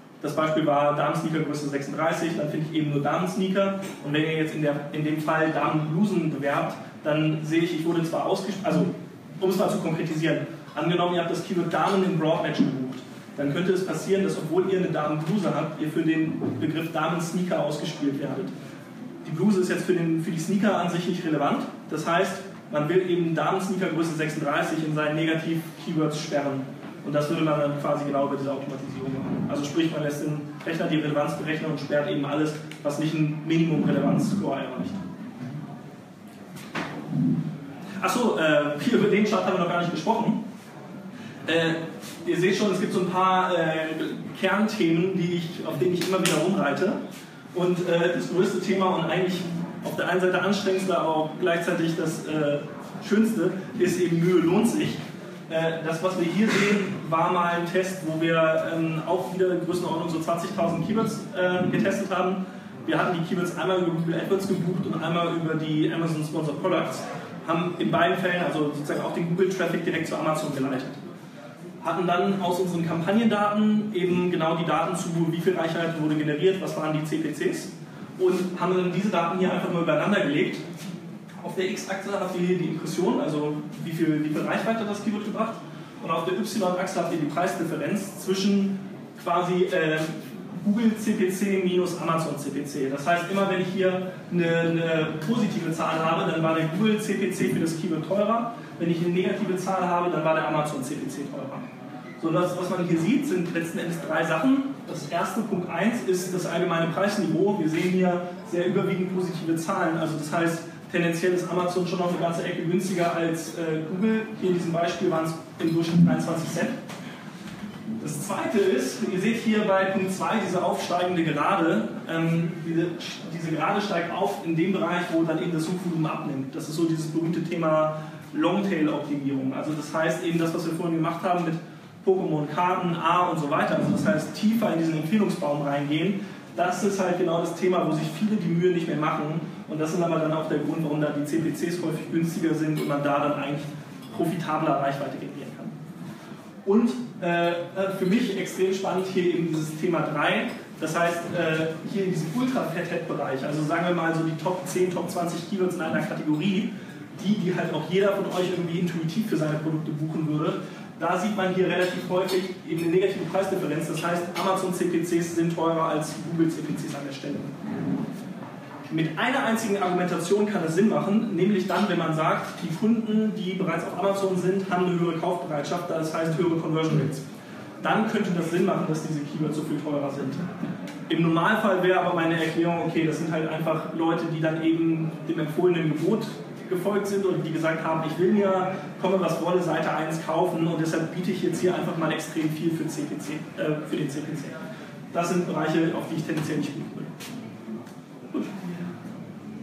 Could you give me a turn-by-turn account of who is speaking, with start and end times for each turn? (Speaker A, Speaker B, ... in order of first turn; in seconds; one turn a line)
Speaker A: 0.2-18.5
Speaker A: 19.2-35.0
Speaker A: 38.0-40.4
Speaker A: 41.5-47.0
Speaker A: 47.5-71.0
Speaker A: 71.8-80.6
Speaker A: 81.4-101.7
Speaker A: 102.2-116.8
Speaker A: 118.0-145.7
Speaker A: 146.6-167.6
Speaker A: 168.9-177.2
Speaker A: 177.8-180.4
Speaker A: 181.1-194.6
Speaker A: 195.1-197.1